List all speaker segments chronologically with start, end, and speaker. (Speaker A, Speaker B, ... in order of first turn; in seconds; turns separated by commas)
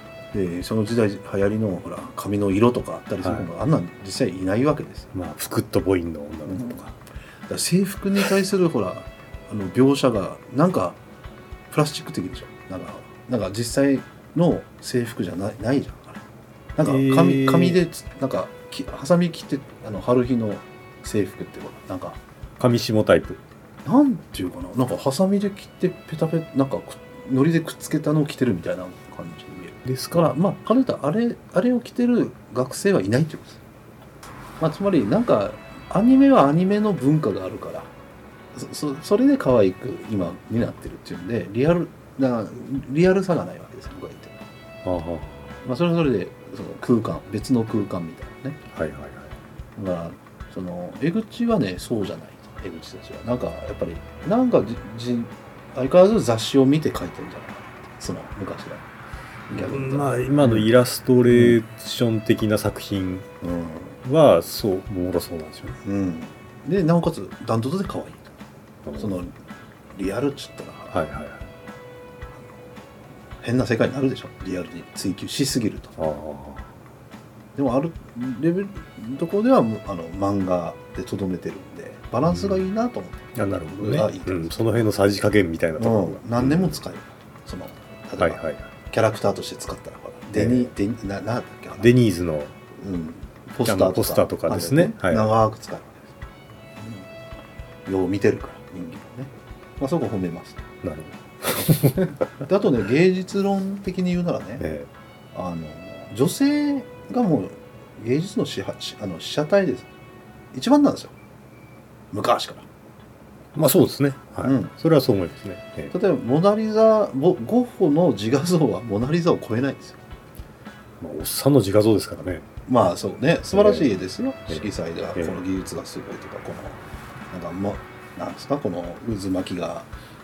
Speaker A: 0.3-5.1, Speaker B: 3.2-3.5, Speaker B: 5.1-6.9, Speaker A: 6.5-6.8, Speaker A: 7.5-11.0, Speaker A: 11.7-16.2, Speaker A: 16.8-22.2, Speaker B: 16.8-17.8, Speaker B: 22.6-23.4, Speaker A: 23.8-33.6, Speaker B: 29.8-30.3, Speaker A: 34.6-37.9, Speaker A: 38.5-44.4, Speaker B: 44.8-45.6, Speaker A: 45.6-48.6, Speaker B: 48.7-49.3, Speaker A: 49.8-58.8, Speaker A: 59.5-60.7, Speaker B: 59.5-63.3, Speaker A: 61.3-61.6, Speaker A: 63.4-64.0, Speaker B: 64.0-65.8, Speaker A: 65.8-68.3, Speaker B: 68.8-69.1, Speaker A: 68.9-69.3, Speaker A: 69.9-71.1, Speaker B: 70.9-71.5, Speaker A: 73.4-76.0, Speaker B: 76.0-76.7, Speaker A: 77.5-84.5, Speaker B: 82.2-82.6, Speaker B: 83.3-86.8, Speaker A: 85.8-91.9, Speaker B: 88.2-88.7, Speaker B: 90.3-90.7, Speaker B: 91.8-92.5, Speaker A: 92.8-96.1, Speaker B: 93.6-95.3, Speaker A: 96.8-97.0, Speaker A: 97.8-100.7, Speaker B: 100.8-102.1, Speaker A: 101.7-104.7, Speaker B: 104.6-104.9, Speaker A: 105.3-109.9, Speaker A: 110.5-111.1, Speaker A: 112.1-112.7, Speaker B: 113.5-115.9, Speaker A: 114.4-114.7, Speaker A: 115.9-120.0, Speaker B: 121.0-122.5, Speaker A: 122.7-126.8, Speaker B: 123.5-123.9, Speaker A: 127.3-129.9